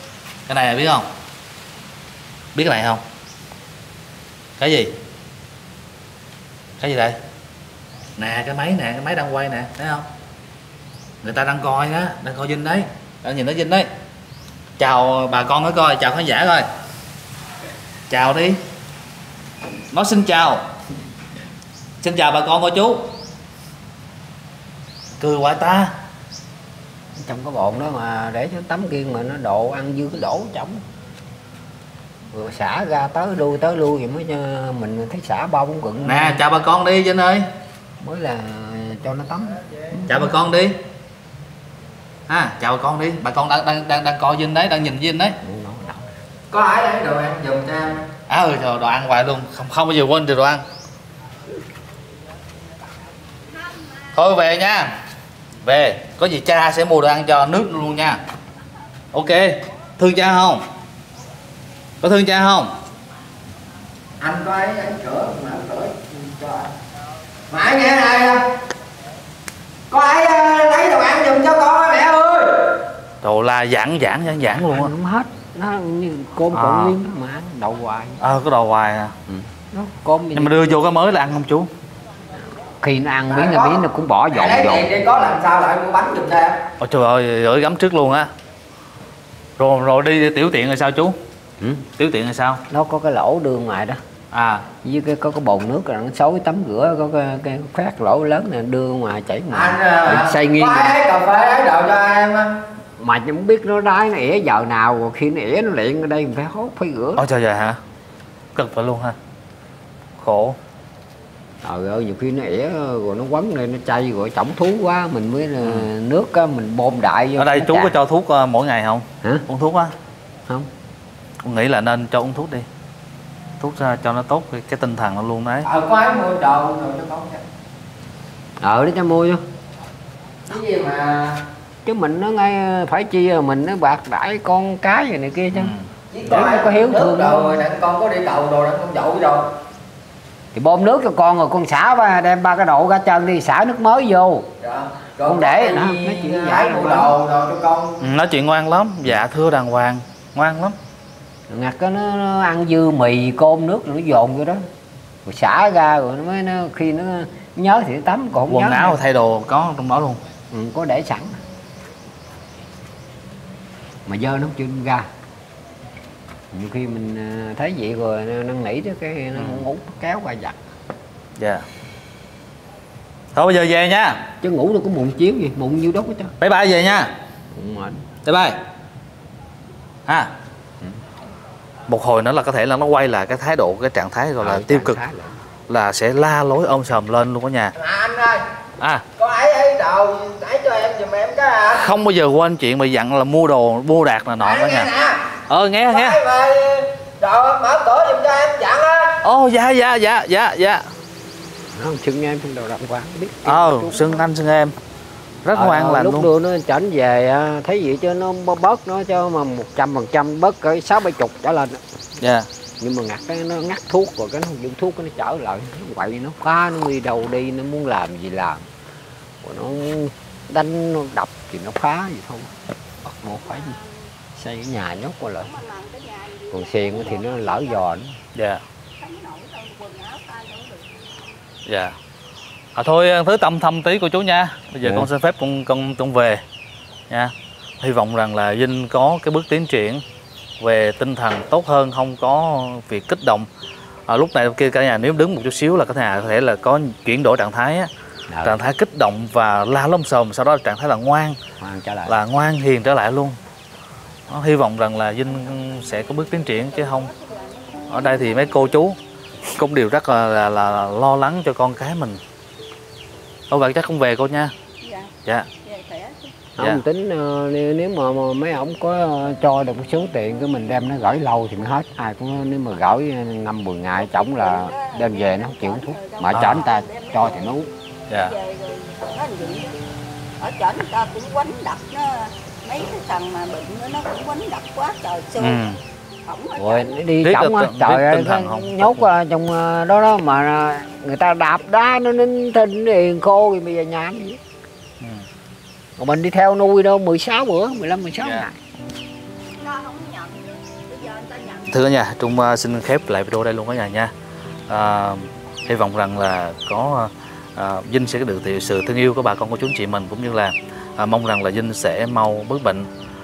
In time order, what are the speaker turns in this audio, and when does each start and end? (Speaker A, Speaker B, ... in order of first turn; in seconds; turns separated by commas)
Speaker A: 0.5-1.1, Speaker A: 2.5-3.0, Speaker A: 4.6-5.0, Speaker A: 6.8-7.2, Speaker A: 8.2-10.1, Speaker A: 11.2-13.9, Speaker A: 14.8-16.7, Speaker A: 18.1-18.6, Speaker A: 19.9-20.6, Speaker A: 22.0-23.1, Speaker A: 25.2-25.9, Speaker B: 27.2-30.8, Speaker B: 32.3-36.4, Speaker A: 36.0-37.5, Speaker B: 38.0-40.4, Speaker A: 40.1-40.8, Speaker A: 42.3-45.4, Speaker B: 45.4-46.1, Speaker C: 46.5-48.1, Speaker A: 48.3-50.6, Speaker D: 53.6-54.1, Speaker A: 54.1-54.9, Speaker A: 55.6-58.2, Speaker A: 59.1-60.7, Speaker A: 62.0-62.7, Speaker C: 64.2-66.7, Speaker C: 67.5-68.4, Speaker C: 69.9-72.8, Speaker A: 73.2-74.9, Speaker B: 74.7-78.2, Speaker A: 76.5-77.0, Speaker A: 78.2-79.2, Speaker B: 79.3-80.6, Speaker A: 80.3-81.7, Speaker B: 82.8-85.0, Speaker C: 83.3-86.6, Speaker A: 86.8-88.3, Speaker A: 89.6-91.2, Speaker B: 91.6-91.9, Speaker A: 92.0-92.6, Speaker B: 92.7-94.0, Speaker A: 94.3-94.7, Speaker B: 94.8-101.0, Speaker C: 99.5-102.5, Speaker B: 103.0-107.2, Speaker A: 107.2-107.8, Speaker A: 108.5-109.2, Speaker A: 110.2-110.6, Speaker B: 111.6-118.0, Speaker A: 115.6-115.9, Speaker A: 117.4-119.9, Speaker A: 121.4-122.7, Speaker A: 123.6-125.7, Speaker C: 125.6-127.4, Speaker B: 128.6-129.4, Speaker C: 130.5-131.4, Speaker B: 131.8-135.7, Speaker A: 135.5-135.9, Speaker C: 136.1-139.5, Speaker B: 136.3-137.6, Speaker B: 140.5-144.5, Speaker C: 144.6-148.0, Speaker B: 145.2-147.2, Speaker A: 148.0-150.8, Speaker B: 151.5-154.6, Speaker B: 155.2-159.0, Speaker A: 158.5-160.2, Speaker B: 160.5-161.4, Speaker B: 164.1-165.1, Speaker B: 166.5-170.6, Speaker A: 169.3-169.7, Speaker A: 171.4-171.7, Speaker A: 173.3-174.3, Speaker B: 174.4-176.3, Speaker A: 176.4-177.1, Speaker B: 177.5-178.0, Speaker A: 178.2-178.6, Speaker A: 181.9-185.0, Speaker B: 184.4-185.4, Speaker A: 185.7-187.8, Speaker C: 187.8-188.4, Speaker C: 189.2-191.9, Speaker A: 191.7-194.9, Speaker C: 194.4-199.2, Speaker A: 195.5-196.2, Speaker A: 199.2-200.9, Speaker B: 201.7-204.3, Speaker A: 203.5-204.7, Speaker A: 205.4-206.3, Speaker B: 205.5-211.8, Speaker A: 212.2-212.5, Speaker B: 212.8-218.7, Speaker B: 219.4-222.5, Speaker B: 223.0-223.8, Speaker D: 223.2-224.0, Speaker B: 224.4-225.5, Speaker D: 225.4-227.9, Speaker B: 226.5-228.2, Speaker A: 228.3-228.6, Speaker D: 229.0-231.2, Speaker A: 231.7-231.9, Speaker A: 232.8-236.4, Speaker B: 234.8-235.1, Speaker A: 237.1-240.0, Speaker A: 240.6-243.5, Speaker A: 244.1-247.9, Speaker B: 248.3-248.6, Speaker A: 248.4-251.4, Speaker B: 251.6-252.2, Speaker A: 252.1-253.4, Speaker A: 254.3-257.1, Speaker D: 255.5-258.7, Speaker A: 257.9-259.0, Speaker A: 259.5-262.2, Speaker A: 263.5-264.5, Speaker D: 264.8-265.1, Speaker D: 265.6-266.3, Speaker B: 266.6-277.7, Speaker D: 273.9-277.5, Speaker A: 276.3-276.6, Speaker A: 278.1-278.3, Speaker D: 278.1-279.8, Speaker D: 280.4-285.7, Speaker A: 285.4-285.8, Speaker D: 286.2-287.0, Speaker B: 286.6-294.4, Speaker A: 287.2-289.1, Speaker B: 296.0-298.6, Speaker A: 298.2-298.5, Speaker D: 299.6-301.8, Speaker A: 301.7-304.1, Speaker A: 304.7-312.9